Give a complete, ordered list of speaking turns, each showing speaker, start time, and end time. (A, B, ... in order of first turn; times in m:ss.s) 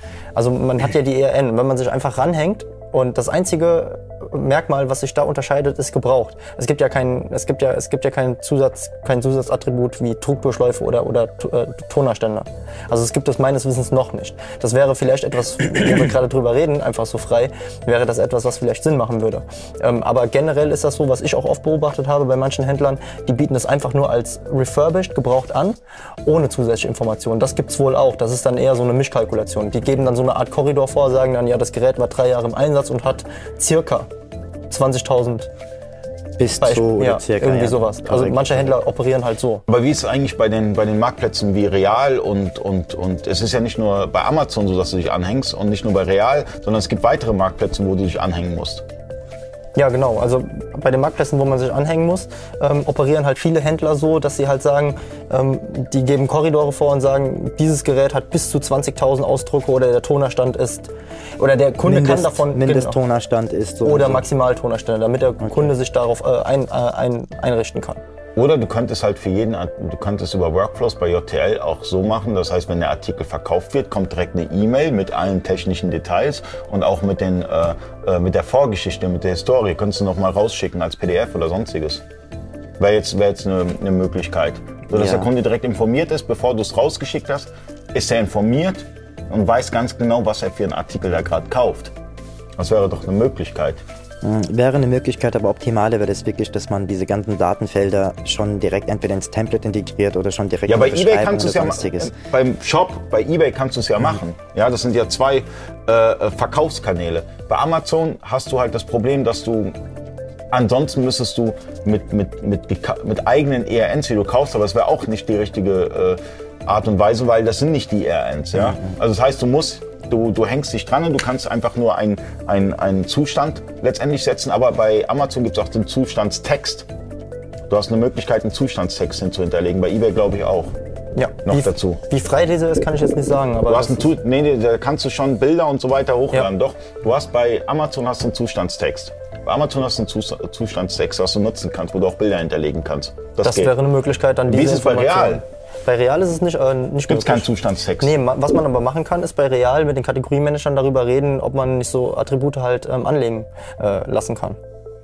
0:00.4-0:34.1 A
0:34.7-0:35.5 A
0:36.4-0:38.7 B
0:36.6-0:39.6 A
0:39.7-0:48.8 C
0:49.8-1:03.0 A
1:01.8-1:04.2 B
1:03.8-1:08.0 A
1:05.4-1:05.7 B
1:08.4-1:22.0 C
1:22.8-1:31.9 C
1:24.9-1:25.3 B
1:32.6-1:33.8 C
1:34.2-1:42.1 B
1:40.7-1:49.8 C
1:50.5-2:06.9 C
2:07.7-2:10.7 C
2:11.2-2:14.1 A
2:11.5-2:12.0 C
2:13.7-2:23.7 C
2:23.4-2:34.6 A
2:24.5-2:25.4 C
2:27.1-2:28.1 C